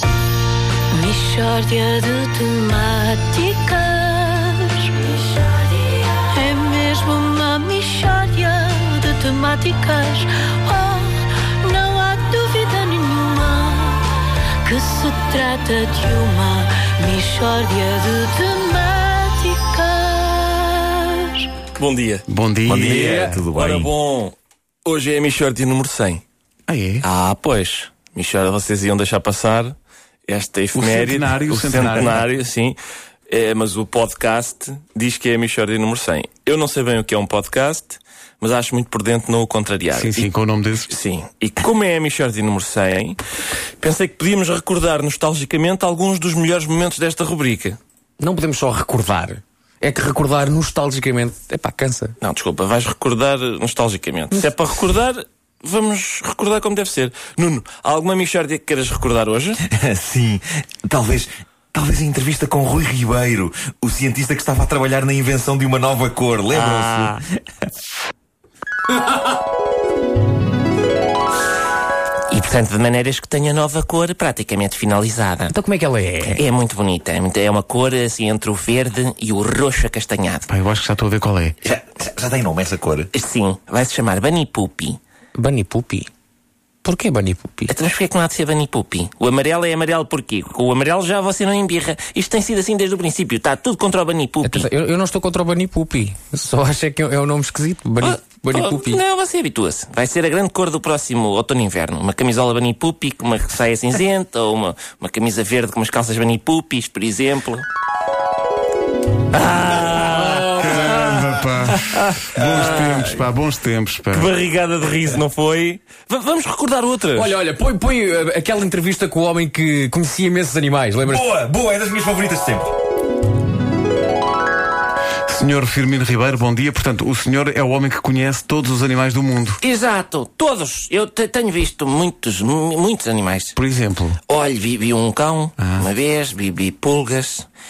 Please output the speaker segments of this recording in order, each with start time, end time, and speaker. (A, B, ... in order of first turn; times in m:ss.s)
0:00.9-0:21.5 A
0:21.7-0:22.2 B
0:22.3-0:23.3 C
0:22.7-0:23.9 D
0:22.8-0:26.2 B
0:23.0-0:23.4 E
0:26.7-0:27.1 C
0:27.0-0:29.8 B
0:30.3-0:32.8 B
0:30.7-0:32.2 C
0:33.3-0:40.3 B
0:39.9-0:40.9 C
0:40.9-0:43.2 B
0:43.8-0:47.8 B
0:48.2-0:52.2 E
0:52.2-0:59.6 B
0:59.6-1:07.2 D
1:06.5-1:07.2 B
1:12.3-1:15.5 B
1:15.5-1:16.4 E
1:16.3-1:20.5 B
1:20.5-1:21.6 C
1:21.6-1:23.1 D
1:23.1-1:25.0 B
1:25.4-1:26.1 E
1:26.8-1:27.7 E
1:27.7-1:34.7 B
1:34.4-1:39.0 E
1:38.0-1:47.6 B
1:49.3-1:53.2 B
1:50.0-1:51.3 E
1:50.6-1:54.3 C
1:52.3-1:52.9 D
1:54.1-1:57.4 B
1:57.1-2:01.2 E
2:01.0-2:02.7 D
2:05.3-2:09.6 C
2:09.6-2:13.6 B
2:13.6-2:14.2 C
2:14.3-2:17.5 B
2:15.6-2:15.9 C